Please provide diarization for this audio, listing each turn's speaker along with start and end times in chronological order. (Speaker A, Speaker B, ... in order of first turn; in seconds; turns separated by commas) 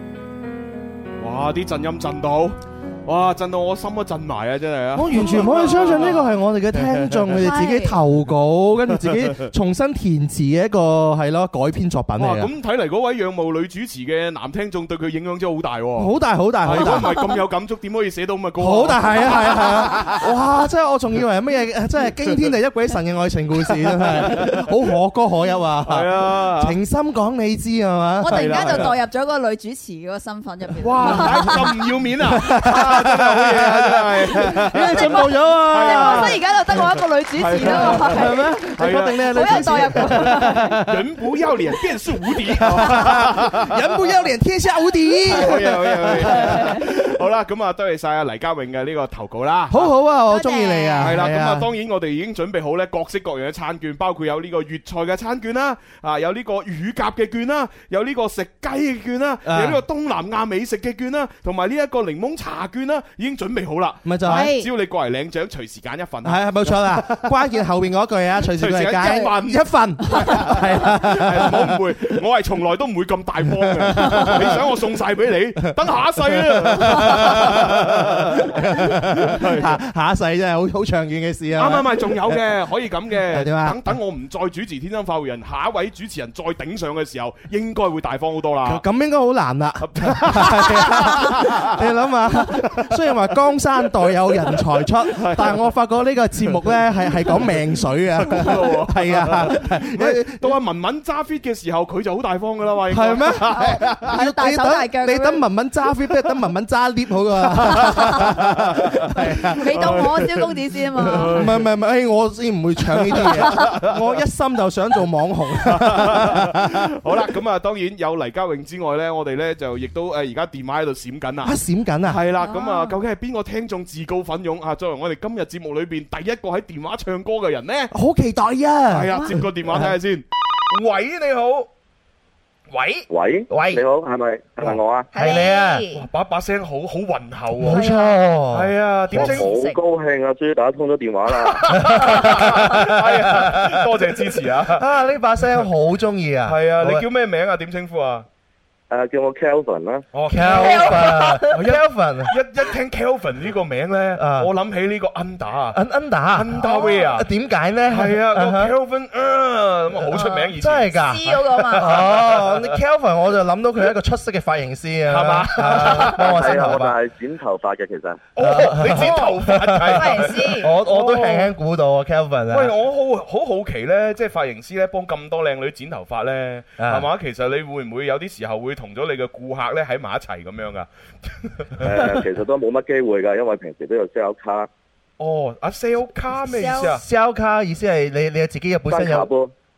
Speaker A: 1.2-7.4, Speaker B: 5.0-12.5, Speaker C: 5.2-6.3, Speaker C: 7.4-8.0, Speaker A: 8.9-9.3, Speaker A: 12.2-20.2, Speaker B: 16.0-17.3, Speaker C: 16.8-17.3, Speaker B: 18.6-28.9, Speaker C: 19.4-19.9, Speaker A: 23.8-24.9, Speaker A: 25.9-26.8, Speaker C: 28.2-31.9, Speaker A: 28.3-28.9, Speaker A: 30.8-44.1, Speaker B: 31.0-36.9, Speaker C: 32.5-33.0, Speaker C: 34.4-40.8, Speaker B: 37.5-41.0, Speaker B: 42.5-47.0, Speaker C: 42.8-43.2, Speaker C: 45.3-45.5, Speaker A: 45.3-49.9, Speaker C: 46.2-46.8, Speaker B: 49.7-51.7, Speaker C: 50.3-51.2, Speaker A: 51.0-67.3, Speaker B: 59.5-59.8, Speaker B: 64.0-64.6, Speaker C: 64.3-64.7, Speaker B: 66.2-72.0, Speaker A: 68.6-79.8, Speaker C: 70.2-70.5, Speaker B: 73.4-74.8, Speaker C: 74.1-74.3, Speaker B: 76.2-82.4, Speaker A: 81.6-88.8, Speaker B: 83.3-84.0, Speaker B: 88.7-100.5, Speaker A: 89.8-91.9, Speaker A: 92.4-93.1, Speaker A: 94.4-95.7, Speaker A: 96.4-104.1, Speaker B: 102.9-110.4, Speaker C: 103.5-105.5, Speaker C: 107.7-108.3, Speaker A: 107.8-111.7, Speaker C: 109.2-111.6, Speaker B: 110.9-116.8, Speaker A: 113.0-114.2, Speaker C: 113.2-113.6, Speaker A: 115.6-127.9, Speaker B: 121.4-122.2, Speaker C: 122.4-123.0, Speaker B: 127.9-129.9, Speaker A: 128.9-131.7, Speaker C: 129.1-129.4, Speaker A: 132.7-133.1, Speaker D: 133.1-135.1, Speaker B: 133.5-133.8, Speaker B: 134.6-135.8, Speaker C: 135.1-136.1, Speaker A: 135.9-137.9, Speaker B: 137.6-139.5, Speaker C: 137.6-138.2, Speaker A: 138.5-139.5, Speaker D: 139.1-141.7, Speaker C: 139.4-139.8, Speaker B: 141.7-143.7, Speaker A: 141.7-144.9, Speaker B: 144.6-147.0, Speaker A: 146.5-148.3, Speaker D: 148.9-150.1, Speaker A: 150.1-155.8, Speaker B: 150.3-152.4, Speaker C: 150.4-151.6, Speaker B: 154.2-154.5, Speaker B: 155.7-158.8, Speaker A: 156.3-157.3, Speaker A: 157.9-162.8, Speaker B: 159.9-167.0, Speaker C: 161.0-162.1, Speaker A: 165.1-166.8, Speaker D: 165.8-168.2, Speaker A: 168.4-171.5, Speaker B: 168.4-172.8, Speaker C: 168.9-170.7, Speaker A: 172.5-180.9, Speaker B: 176.8-177.1, Speaker A: 181.4-181.9, Speaker D: 181.8-184.7, Speaker A: 185.2-187.0, Speaker C: 186.5-186.9, Speaker B: 186.7-189.3, Speaker D: 188.9-189.5